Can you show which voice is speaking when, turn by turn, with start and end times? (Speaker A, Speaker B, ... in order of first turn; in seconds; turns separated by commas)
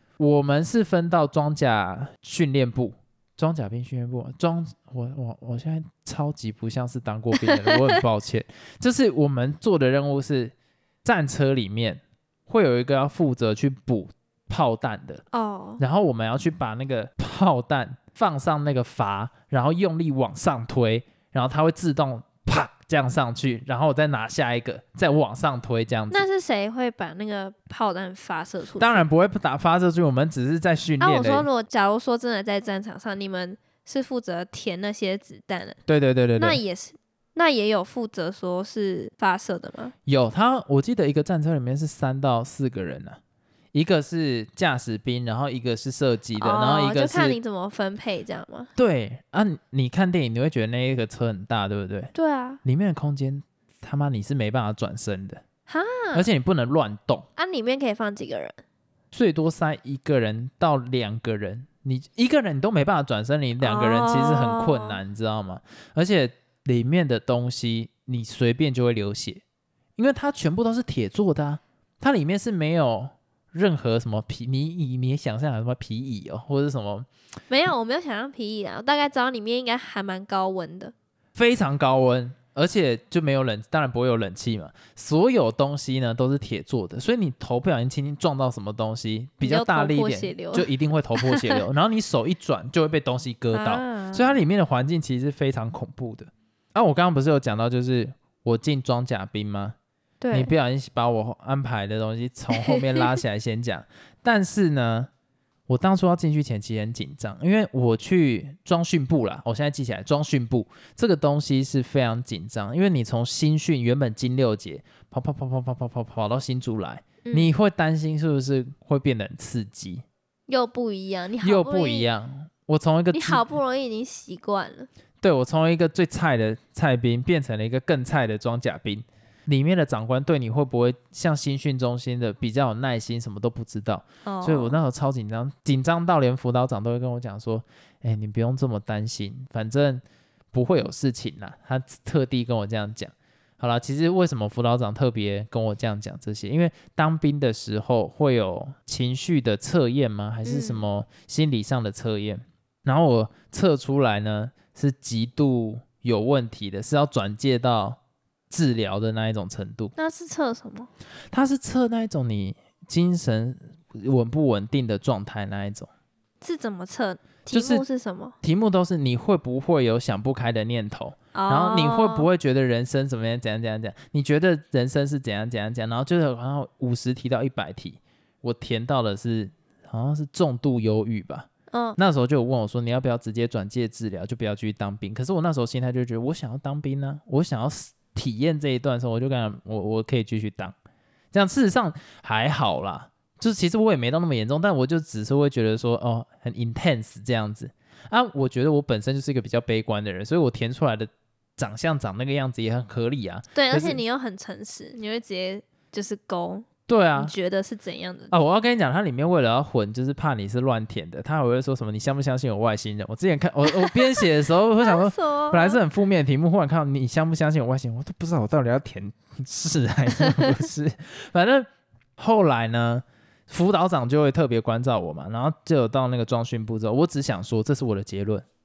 Speaker A: 0.2-15.2, Speaker B: 7.4-8.0, Speaker B: 15.3-15.8, Speaker A: 15.8-26.2, Speaker B: 26.1-29.1, Speaker A: 28.8-31.5, Speaker B: 31.0-35.8, Speaker A: 35.9-36.6, Speaker B: 36.4-39.9, Speaker A: 40.1-43.2, Speaker A: 43.7-47.4, Speaker B: 46.4-48.7, Speaker A: 48.8-52.1, Speaker B: 52.1-52.6, Speaker A: 52.6-55.4, Speaker B: 55.7-56.3, Speaker A: 56.1-57.3, Speaker B: 57.4-58.6, Speaker A: 59.1-69.4, Speaker B: 63.6-65.0, Speaker A: 70.0-77.1, Speaker B: 77.5-80.9, Speaker A: 81.4-99.8, Speaker B: 89.4-91.6, Speaker B: 93.5-94.4, Speaker B: 100.2-100.5, Speaker A: 100.3-105.1, Speaker B: 102.5-103.1, Speaker A: 105.7-120.0, Speaker B: 117.2-117.5, Speaker B: 120.5-122.1, Speaker A: 121.4-123.5, Speaker B: 123.1-124.9, Speaker A: 125.2-158.0, Speaker B: 134.3-134.8, Speaker B: 150.4-150.8, Speaker A: 158.5-159.9, Speaker B: 160.0-160.9, Speaker A: 161.3-165.9, Speaker B: 166.4-168.3, Speaker A: 167.5-167.8, Speaker A: 168.4-190.8, Speaker B: 171.3-172.3, Speaker B: 181.7-182.0, Speaker A: 191.3-204.0, Speaker B: 203.6-208.3, Speaker A: 206.9-207.3, Speaker A: 208.3-228.4, Speaker B: 213.7-214.3, Speaker B: 214.8-215.8, Speaker B: 220.2-220.5